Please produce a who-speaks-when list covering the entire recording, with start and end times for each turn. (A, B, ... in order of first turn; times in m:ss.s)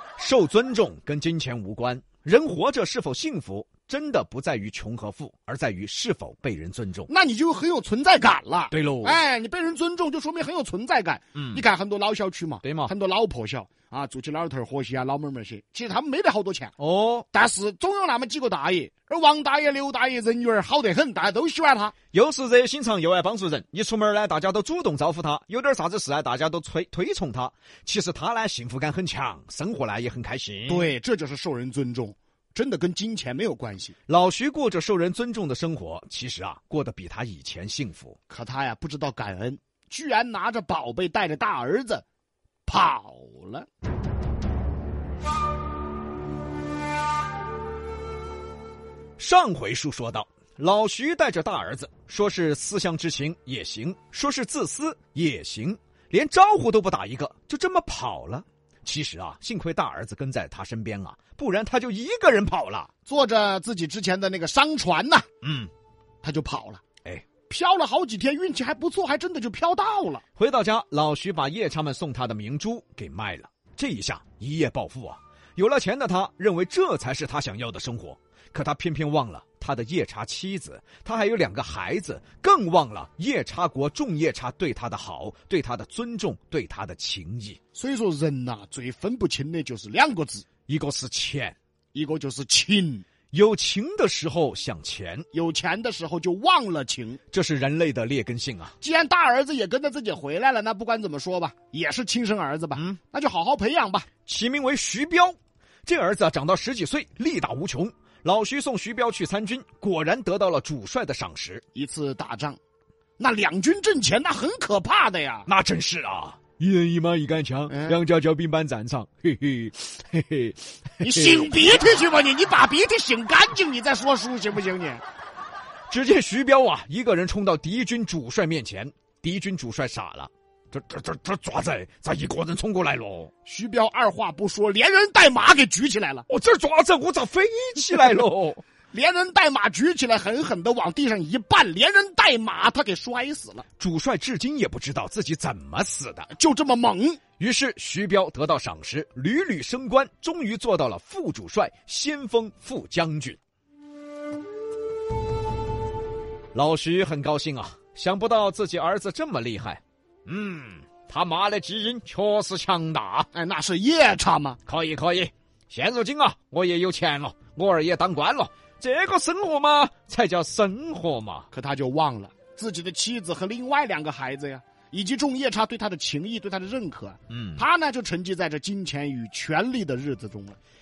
0:00.2-0:07.1 A
0:07.1-0:16.7 B
0:08.7-0:09.2 A
0:11.4-0:11.6 A
0:12.6-0:12.9 A
0:16.8-0:17.3 A
0:17.3-0:21.9 B
0:22.1-0:30.9 A
0:30.7-0:34.0 B
0:34.1-0:38.2 A
0:38.3-0:42.0 B
0:42.7-0:43.7 B
0:49.2-1:02.9 A
1:03.1-1:05.3 B
1:05.4-1:05.7 A
1:06.2-1:06.8 B
1:07.5-1:10.2 B
1:10.4-1:27.6 A
1:27.8-1:30.5 B
1:30.7-1:31.6 A
1:31.9-1:33.0 B
1:33.3-1:35.3 A
1:35.3-1:37.2 B
1:37.3-1:38.8 A
1:38.8-1:44.1 B
1:44.3-1:51.6 A
1:51.8-1:52.6 B
1:53.2-1:55.5 B
1:55.5-2:01.5 A
1:57.7-1:58.0 B
2:01.0-2:05.0 B
2:05.9-2:13.3 A
2:13.4-2:16.3 B
2:16.3-2:18.6 A
2:18.9-2:23.6 B
2:23.8-2:26.3 A
2:26.3-2:27.2 B
2:27.4-2:33.4 A
2:36.5-2:43.3 A
2:43.3-2:44.6 B
2:44.7-2:51.5 A
2:51.5-3:00.6 B
2:57.3-2:57.6 A